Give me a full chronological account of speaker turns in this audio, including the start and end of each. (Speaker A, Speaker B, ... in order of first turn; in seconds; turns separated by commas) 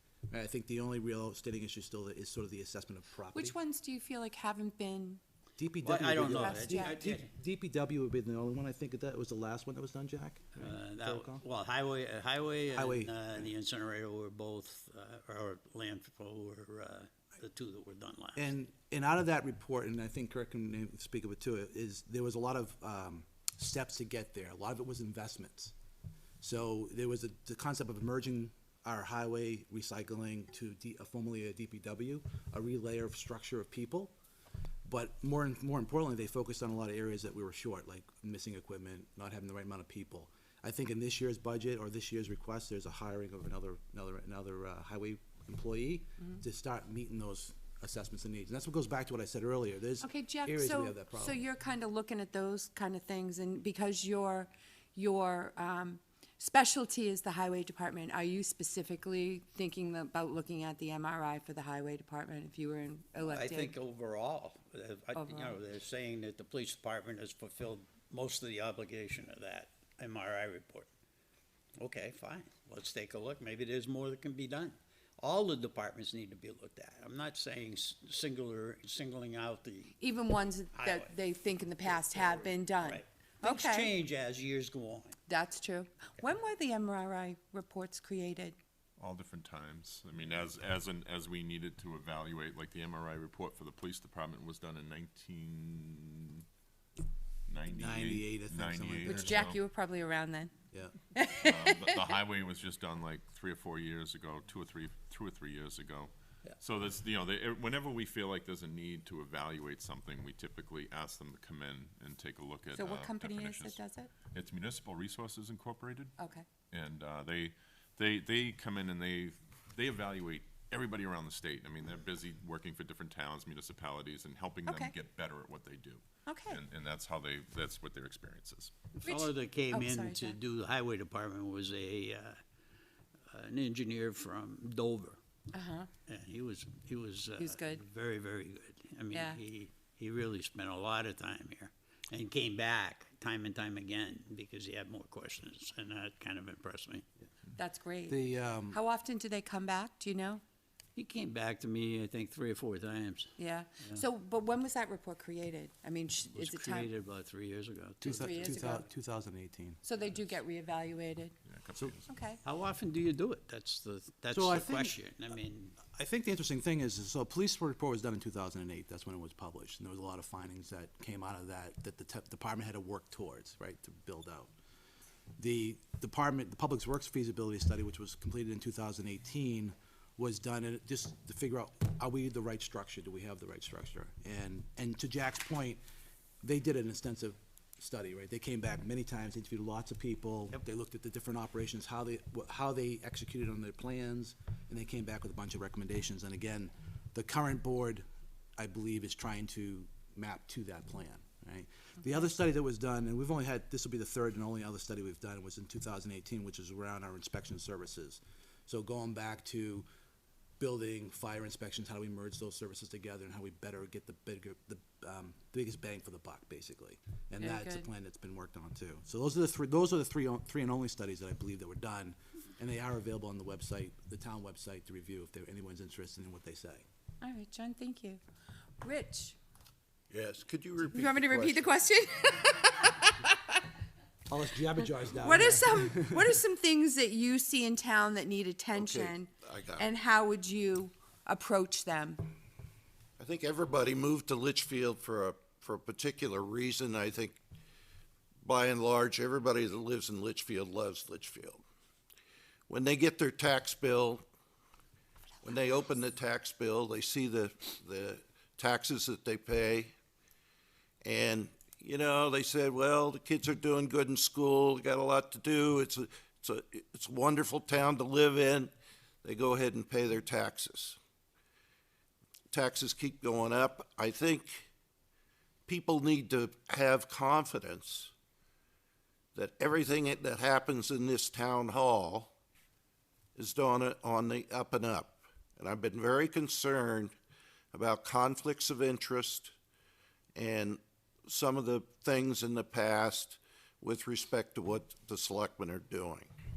Speaker A: 0.3-3.5, Speaker B: 3.3-5.2, Speaker A: 5.6-11.4, Speaker C: 5.8-7.3, Speaker B: 6.2-7.0, Speaker C: 10.6-18.5, Speaker A: 12.7-13.1, Speaker A: 18.3-25.7, Speaker A: 26.4-34.1, Speaker A: 34.9-51.4, Speaker B: 50.0-63.8, Speaker C: 63.2-70.9, Speaker B: 65.1-65.6, Speaker C: 71.8-80.0, Speaker B: 80.0-83.9, Speaker C: 80.7-81.1, Speaker C: 81.8-85.2, Speaker B: 85.3-88.5, Speaker D: 89.0-96.4, Speaker D: 97.5-99.6, Speaker A: 97.7-99.5, Speaker B: 99.0-100.5, Speaker B: 101.1-102.1, Speaker D: 101.4-116.1, Speaker B: 112.7-114.1, Speaker B: 116.2-116.5, Speaker D: 116.7-128.7, Speaker B: 124.7-124.9, Speaker B: 126.3-126.6, Speaker C: 128.9-132.4, Speaker B: 129.0-130.3, Speaker C: 133.3-135.2, Speaker B: 135.5-135.9, Speaker C: 136.1-147.0, Speaker B: 137.4-137.8, Speaker B: 139.1-139.4, Speaker B: 147.6-150.4, Speaker A: 148.1-148.8, Speaker C: 150.9-154.0, Speaker B: 153.4-156.9, Speaker C: 156.3-158.8, Speaker A: 158.0-159.8, Speaker B: 158.1-158.8, Speaker B: 159.8-161.4, Speaker D: 161.4-162.1, Speaker B: 162.1-162.4, Speaker C: 162.4-165.8, Speaker A: 164.3-165.0, Speaker A: 165.8-174.5, Speaker A: 175.4-185.8, Speaker A: 186.4-198.0, Speaker A: 198.6-209.8, Speaker A: 210.6-226.8, Speaker B: 217.4-217.9, Speaker B: 227.2-228.2, Speaker B: 228.8-229.4, Speaker E: 230.1-231.7, Speaker B: 230.9-233.3, Speaker A: 234.3-236.2, Speaker B: 235.1-242.3, Speaker E: 238.7-239.9, Speaker E: 243.2-247.4, Speaker E: 248.4-251.6, Speaker E: 252.7-254.2, Speaker E: 255.4-259.9, Speaker E: 261.0-268.7, Speaker E: 269.2-271.0, Speaker E: 272.5-274.7, Speaker E: 275.7-278.1, Speaker E: 279.3-282.3, Speaker E: 283.4-287.1, Speaker E: 287.7-289.5, Speaker E: 290.3-296.3